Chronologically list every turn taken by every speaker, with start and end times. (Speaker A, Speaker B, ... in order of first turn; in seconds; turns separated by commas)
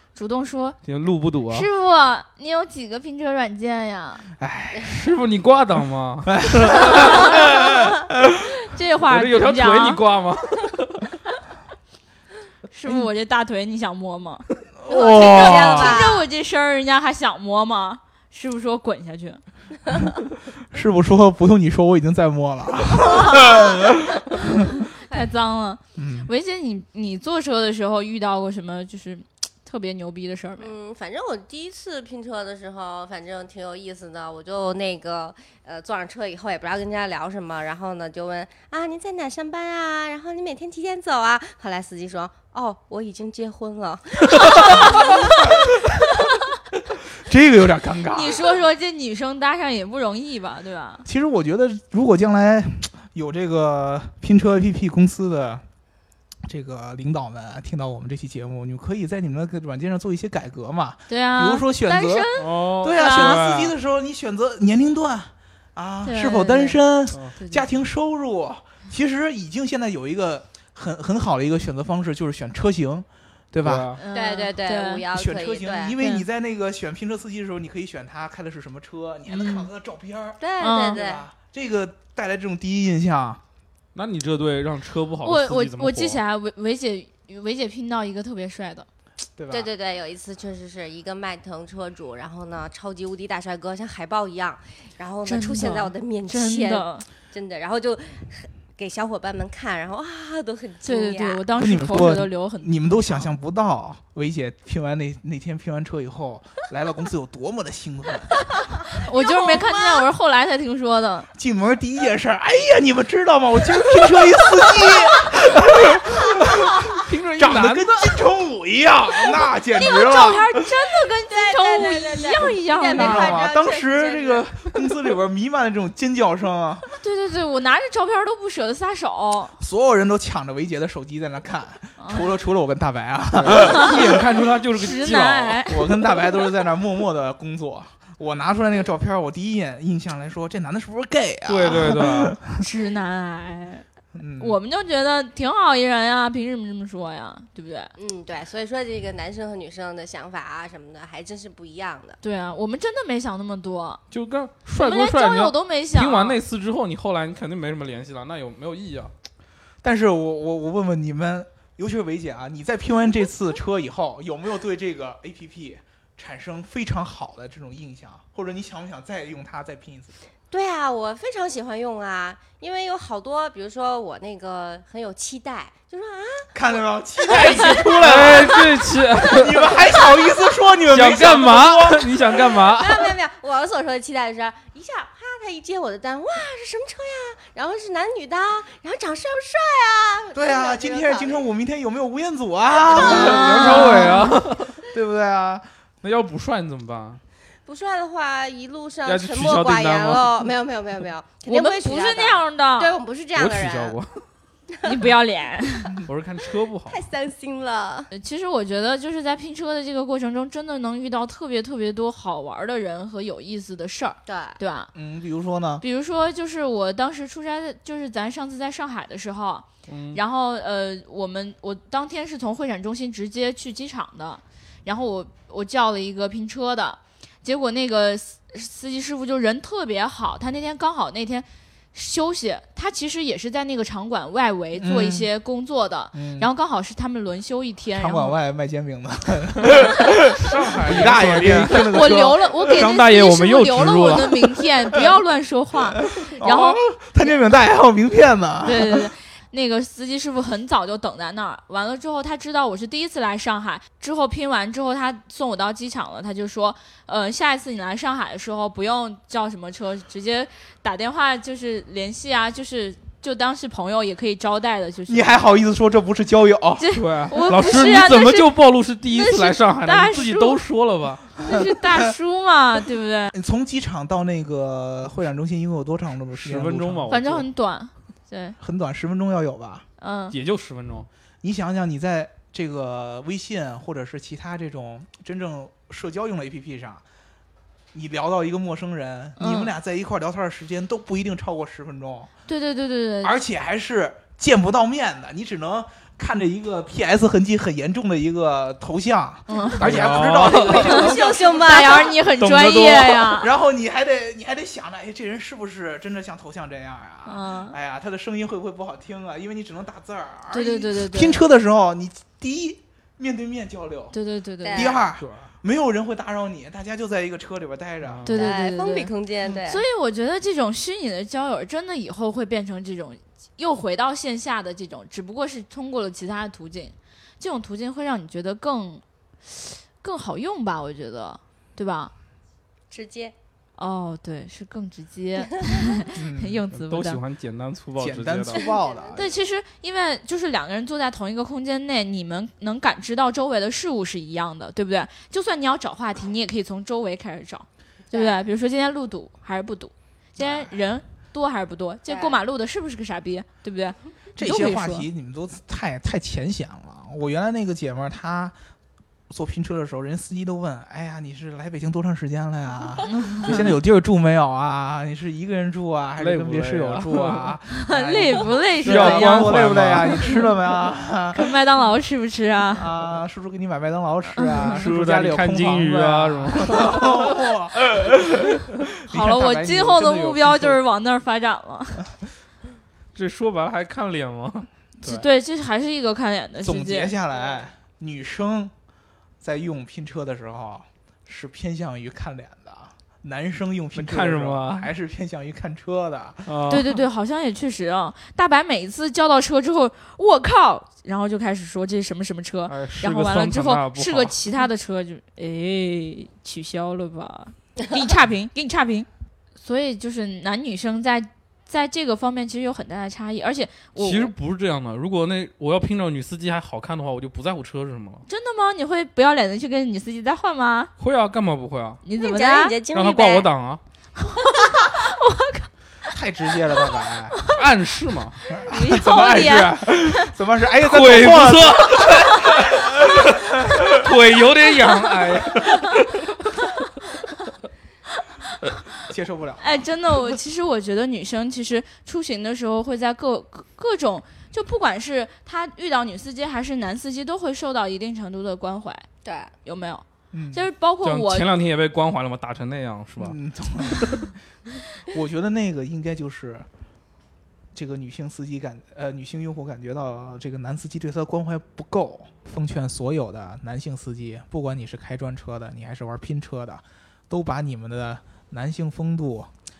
Speaker A: 0.1-0.8, Speaker B: 0.8-1.7, Speaker A: 1.5-4.3, Speaker C: 4.4-5.0, Speaker B: 4.8-7.6, Speaker C: 6.3-8.4, Speaker A: 8.7-10.0, Speaker B: 9.1-11.1, Speaker A: 12.7-14.4, Speaker C: 14.8-16.0, Speaker D: 14.9-16.2, Speaker A: 15.2-19.4, Speaker C: 20.7-24.5, Speaker A: 25.0-30.7, Speaker C: 26.0-26.3, Speaker D: 30.6-45.2, Speaker A: 44.5-45.2, Speaker C: 47.2-48.5, Speaker A: 48.1-51.0, Speaker C: 51.0-55.6, Speaker C: 56.4-62.3, Speaker A: 61.1-63.5, Speaker B: 62.4-63.7, Speaker C: 62.8-73.9, Speaker A: 66.0-66.8, Speaker A: 67.4-67.6, Speaker B: 73.6-74.0, Speaker A: 74.0-75.0, Speaker D: 74.1-75.9, Speaker C: 75.1-83.4, Speaker A: 76.0-76.2, Speaker A: 79.3-79.7, Speaker D: 80.4-81.2, Speaker A: 80.6-81.1, Speaker B: 83.9-86.2, Speaker A: 85.2-88.9, Speaker C: 89.4-89.7, Speaker D: 89.5-101.4, Speaker A: 95.2-97.0, Speaker A: 100.8-102.8, Speaker C: 101.5-108.4, Speaker A: 108.9-111.3, Speaker D: 109.2-110.0, Speaker C: 111.3-120.5, Speaker B: 116.9-118.2, Speaker A: 119.7-123.5, Speaker D: 121.3-124.5, Speaker C: 122.9-127.0, Speaker A: 127.0-129.5, Speaker C: 129.6-134.2, Speaker A: 132.0-132.3, Speaker B: 133.3-135.6, Speaker A: 134.7-135.8, Speaker C: 135.7-142.4, Speaker B: 141.4-142.3, Speaker A: 142.6-143.8, Speaker C: 144.1-144.6, Speaker A: 144.4-147.9, Speaker D: 148.0-152.2, Speaker A: 152.2-154.0, Speaker B: 154.1-159.1, Speaker A: 154.7-156.4, Speaker C: 159.8-170.1, Speaker D: 170.5-176.5, Speaker C: 176.5-178.7, Speaker D: 177.3-178.8, Speaker B: 178.0-179.8, Speaker C: 179.2-182.1, Speaker B: 180.9-183.1, Speaker D: 182.3-191.4, Speaker C: 190.3-195.7, Speaker D: 192.9-193.8, Speaker B: 193.0-194.8, Speaker A: 193.2-194.2, Speaker B: 196.0-197.2, Speaker D: 197.6-204.0, Speaker B: 199.0-200.5, Speaker A: 201.4-202.9, Speaker B: 203.3-204.3, Speaker A: 204.8-206.0, Speaker B: 206.0-207.0, Speaker D: 206.8-208.1, Speaker A: 208.1-214.9, Speaker D: 214.2-214.6, Speaker C: 214.9-215.8, Speaker A: 215.8-238.4, Speaker B: 219.9-220.2, Speaker C: 234.7-235.3, Speaker C: 236.1-236.5, Speaker C: 237.9-242.9, Speaker B: 240.3-241.9, Speaker A: 241.7-247.4, Speaker B: 242.7-244.5, Speaker C: 245.9-249.1, Speaker A: 248.6-265.4, Speaker C: 265.1-266.9, Speaker A: 266.8-268.6, Speaker B: 266.9-271.2, Speaker A: 269.1-270.6, Speaker A: 271.4-273.3, Speaker C: 273.3-277.1, Speaker B: 276.3-277.5, Speaker A: 277.1-278.6, Speaker C: 278.6-279.9, Speaker A: 280.0-280.4, Speaker B: 280.3-281.1, Speaker C: 281.4-287.0, Speaker C: 287.9-292.3, Speaker A: 289.4-289.7, Speaker A: 292.5-293.4, Speaker C: 293.2-302.0, Speaker A: 299.5-299.9, Speaker B: 299.8-301.0, Speaker A: 300.6-303.5, Speaker D: 300.9-302.1, Speaker B: 302.4-303.3, Speaker C: 303.4-314.1, Speaker A: 307.2-307.8, Speaker A: 310.5-311.4, Speaker A: 314.1-315.0, Speaker D: 314.6-315.0, Speaker C: 314.7-318.4, Speaker B: 315.2-315.5, Speaker B: 318.0-318.4, Speaker A: 318.2-319.1, Speaker D: 318.3-319.8, Speaker A: 319.6-332.1, Speaker D: 332.9-333.3, Speaker A: 333.8-337.2, Speaker C: 336.1-336.6, Speaker B: 336.7-338.7, Speaker C: 338.0-339.3, Speaker D: 338.6-339.4, Speaker A: 339.1-355.1, Speaker D: 348.1-348.4, Speaker C: 350.4-350.8, Speaker D: 352.1-352.4, Speaker C: 354.4-358.6, Speaker C: 359.3-371.6, Speaker A: 363.1-363.6, Speaker B: 366.2-367.6, Speaker A: 367.7-370.5, Speaker B: 368.8-370.4, Speaker A: 371.3-372.9, Speaker C: 372.7-380.8, Speaker A: 374.4-374.8, Speaker B: 374.7-377.1, Speaker A: 379.1-382.1, Speaker B: 383.1-384.7, Speaker C: 385.0-385.3, Speaker A: 385.0-387.1, Speaker C: 386.6-388.7, Speaker C: 389.4-396.5, Speaker B: 393.9-394.9, Speaker B: 396.4-396.9, Speaker A: 396.7-414.3, Speaker B: 402.7-404.4, Speaker B: 413.9-418.2, Speaker A: 418.3-420.9, Speaker B: 421.0-422.0, Speaker A: 422.0-422.8, Speaker D: 422.2-423.5, Speaker B: 422.9-423.8, Speaker A: 424.2-425.7, Speaker C: 426.1-427.4, Speaker A: 426.8-427.5, Speaker B: 427.5-428.4, Speaker C: 428.5-432.8, Speaker A: 428.7-430.3, Speaker B: 430.9-436.2, Speaker C: 439.0-439.8, Speaker A: 439.6-449.1, Speaker D: 449.2-449.5, Speaker A: 449.6-451.5, Speaker C: 450.3-450.7, Speaker B: 451.0-453.4, Speaker C: 453.2-454.3, Speaker B: 453.9-454.2, Speaker C: 455.0-456.7, Speaker C: 457.7-469.5